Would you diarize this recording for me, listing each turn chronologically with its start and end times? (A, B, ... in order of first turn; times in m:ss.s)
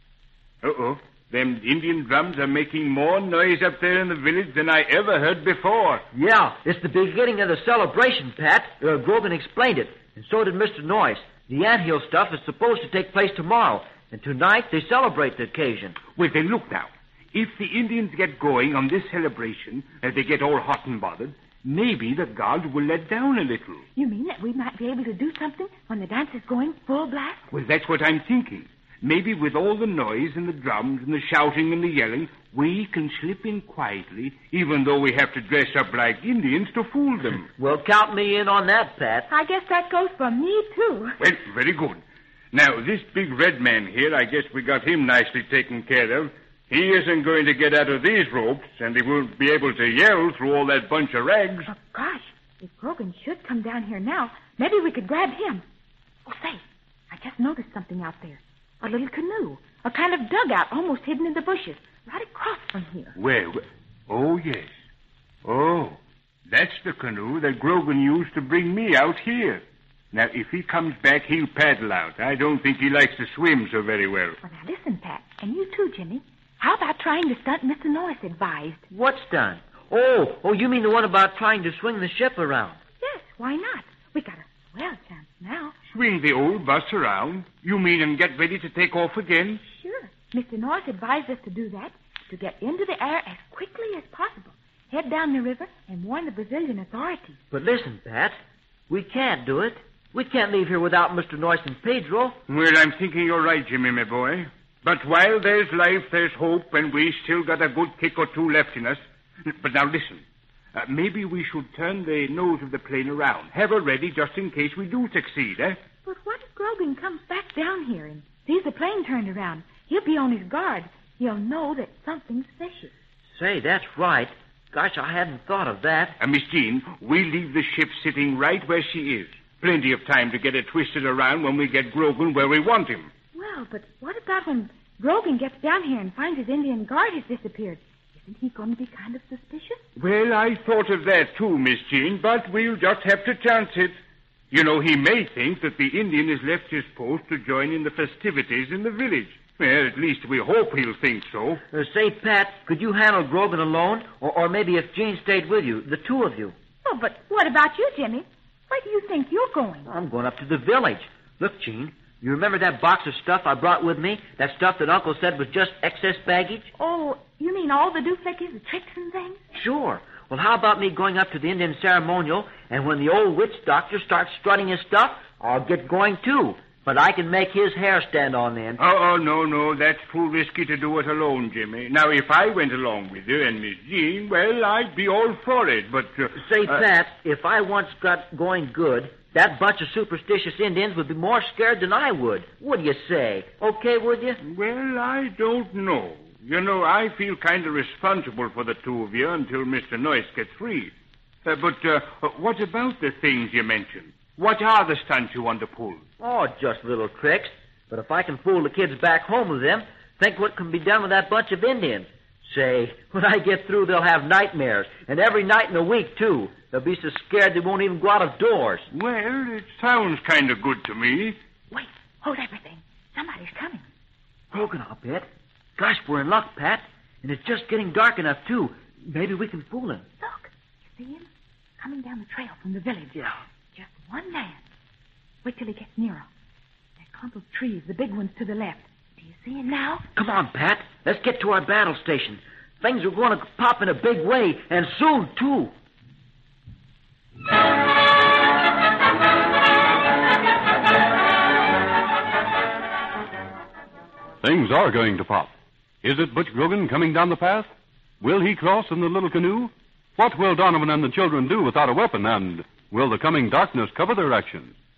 0:00.6-0:06.0 A
0:06.1-0:16.0 B
0:16.1-0:23.8 A
0:23.9-0:27.5 C
0:27.5-0:37.5 A
0:37.6-0:39.3 B
0:39.3-0:41.2 C
0:41.2-0:42.0 A
0:42.5-0:51.7 A
0:51.7-0:55.6 C
0:56.2-1:03.1 C
1:03.2-1:04.7 A
1:05.4-1:06.0 A
1:06.5-1:14.4 A
1:14.4-1:18.8 C
1:18.9-1:22.8 B
1:23.0-1:25.7 C
1:25.9-1:29.6 A
1:29.6-1:37.4 C
1:37.5-1:38.4 B
1:38.9-1:42.4 B
1:42.5-1:55.8 A
1:56.0-2:02.9 C
2:03.3-2:06.2 B
2:06.2-2:13.1 A
2:13.3-2:19.8 C
2:20.0-2:24.0 A
2:24.5-2:31.6 A
2:31.7-2:36.5 B
2:36.8-2:39.9 C
2:39.9-2:46.7 B
2:46.7-2:49.4 C
2:49.5-2:58.8 B
2:58.8-3:06.8 A
3:06.4-3:14.4 B
3:14.4-3:20.9 A
3:21.4-3:26.0 A
3:26.2-3:38.9 B
3:38.9-3:41.4 A
3:41.7-3:43.9 C
3:44.5-3:45.2 B
3:45.8-3:50.0 B
3:50.2-3:51.3 C
3:51.8-3:54.6 C
3:55.4-3:56.3 C
3:57.0-4:00.0 C
4:00.1-4:05.7 B
4:14.4-4:15.5 D
4:16.0-4:17.7 D
4:18.2-4:24.7 D